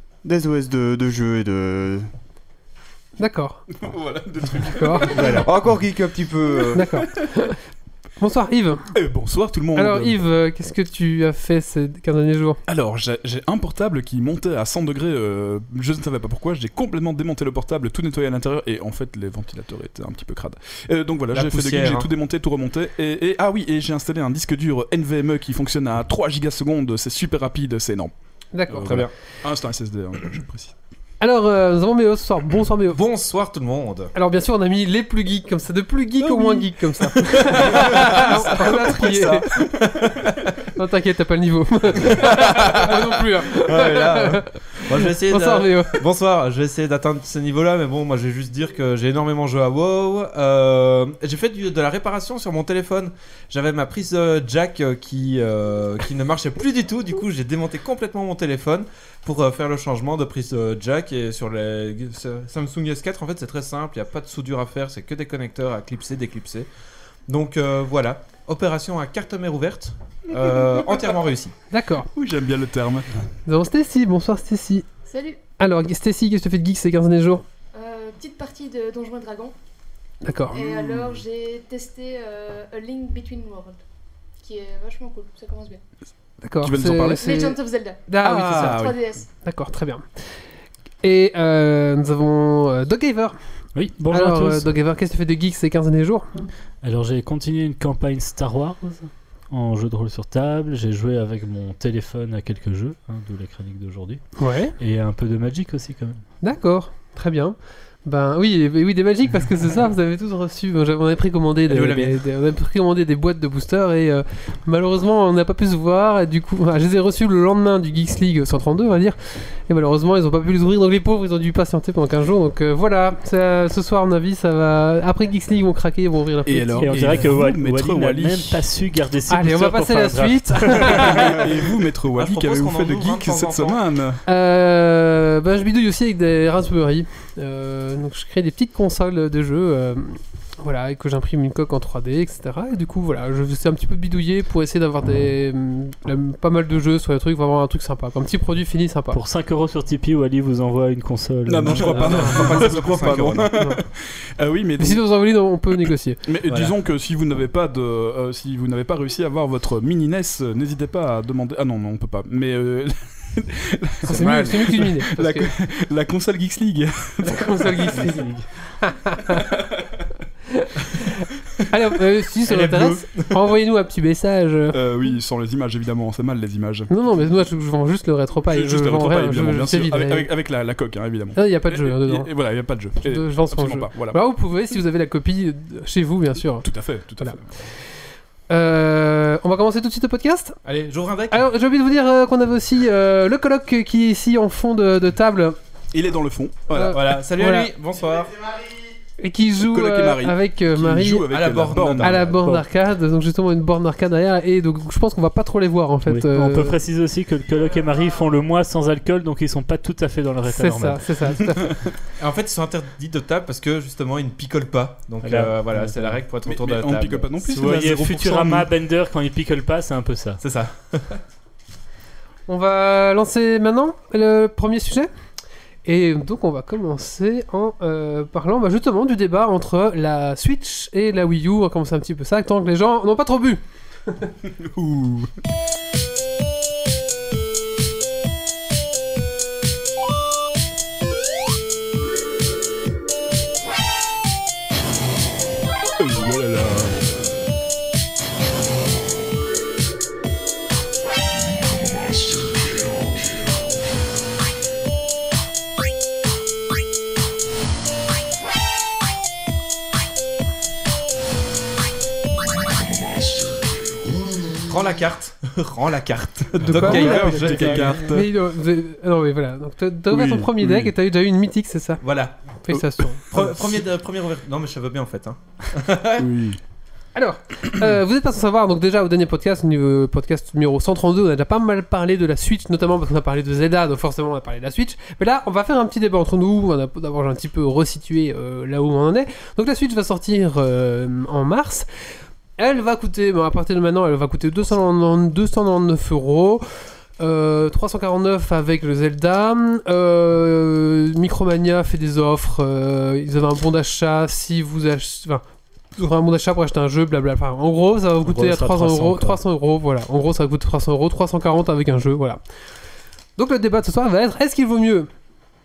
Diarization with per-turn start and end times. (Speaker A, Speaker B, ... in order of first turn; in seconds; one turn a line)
Speaker A: 0.2-2.1
Speaker B: 3.2-3.6
Speaker C: 3.7-5.8
Speaker B: 4.7-5.4
Speaker A: 5.1-6.9
Speaker C: 6.7-7.2
Speaker B: 6.8-7.6
Speaker B: 8.2-8.8
Speaker C: 8.9-10.2
Speaker B: 9.8-12.6
Speaker C: 12.7-28.1
Speaker D: 21.3-22.1
Speaker B: 28.5-28.9
Speaker C: 28.7-30.7
Speaker D: 28.8-29.1
Speaker B: 31.2-33.0
Speaker D: 32.9-34.1
Speaker B: 34.1-39.5
Speaker C: 36.3-36.7
Speaker D: 37.2-40.4
Speaker C: 37.8-40.4
Speaker B: 40.8-46.0
Speaker D: 42.1-42.7
Speaker D: 43.6-66.7
Speaker D: 67.3-71.5
Speaker B: 71.7-72.1
Speaker C: 72.1-73.2
Speaker B: 73.5-74.9
Speaker E: 75.1-75.4
Speaker B: 75.6-77.4
Speaker E: 77.7-79.5
Speaker B: 80.2-80.6
Speaker E: 80.5-83.8
Speaker E: 84.4-85.8
Speaker B: 86.4-87.6
Speaker C: 86.6-87.2
Speaker E: 87.2-88.0
Speaker B: 88.1-88.9
Speaker D: 88.2-88.9
Speaker E: 88.6-89.2
Speaker B: 89.4-90.0
Speaker B: 91.0-93.4
Speaker F: 93.8-94.7
Speaker B: 94.1-96.4
Speaker F: 96.8-104.2
Speaker B: 104.4-104.8
Speaker F: 104.8-106.2
Speaker B: 106.4-126.9
Speaker D: 111.7-112.2
Speaker C: 126.4-128.7
Speaker F: 126.8-131.2
Speaker B: 129.3-131.4
Speaker C: 130.8-134.2
Speaker D: 132.1-133.8
Speaker B: 134.2-149.2
Speaker F: 149.1-152.5
Speaker C: 151.5-155.0
Speaker D: 151.8-153.5
Speaker B: 151.9-152.8
Speaker B: 153.6-153.8
Speaker B: 154.8-156.2
Speaker C: 156.2-168.2
Speaker D: 156.5-156.7
Speaker B: 164.0-165.5
Speaker A: 164.2-164.6
Speaker B: 167.2-169.5
Speaker B: 170.5-171.1
Speaker B: 171.7-174.8
Speaker D: 172.4-173.4
Speaker C: 174.7-176.9
Speaker B: 176.9-180.3
Speaker C: 178.5-184.2
Speaker B: 181.3-182.3
Speaker B: 183.0-187.4
Speaker C: 186.6-187.7
Speaker B: 188.5-190.6
Speaker D: 190.6-191.5
Speaker B: 191.3-195.6
Speaker C: 195.9-197.1
Speaker B: 196.7-197.7
Speaker D: 196.9-198.6
Speaker B: 199.2-201.3
Speaker C: 199.6-202.3
Speaker D: 201.3-202.4
Speaker B: 202.0-206.8
Speaker F: 206.1-211.1
Speaker B: 210.4-211.7
Speaker C: 211.6-211.9
Speaker D: 212.2-217.3
Speaker F: 215.2-216.2
Speaker C: 216.4-218.7
Speaker F: 217.4-220.4
Speaker D: 220.4-221.2
Speaker B: 222.5-225.1
Speaker B: 225.8-234.3
Speaker C: 234.6-235.3
Speaker C: 246.0-247.1
Speaker D: 264.6-268.1
Speaker C: 266.5-268.3
Speaker B: 266.6-272.0
Speaker C: 270.1-270.9
Speaker D: 272.0-272.4
Speaker B: 272.6-273.4
Speaker C: 272.7-273.7
Speaker D: 273.3-276.2
Speaker C: 276.2-276.6
Speaker B: 277.1-291.9
Speaker B: 292.6-296.6
Speaker B: 297.2-305.4
Speaker B: 305.9-312.4
Speaker F: 308.2-309.4
Speaker B: 313.4-315.1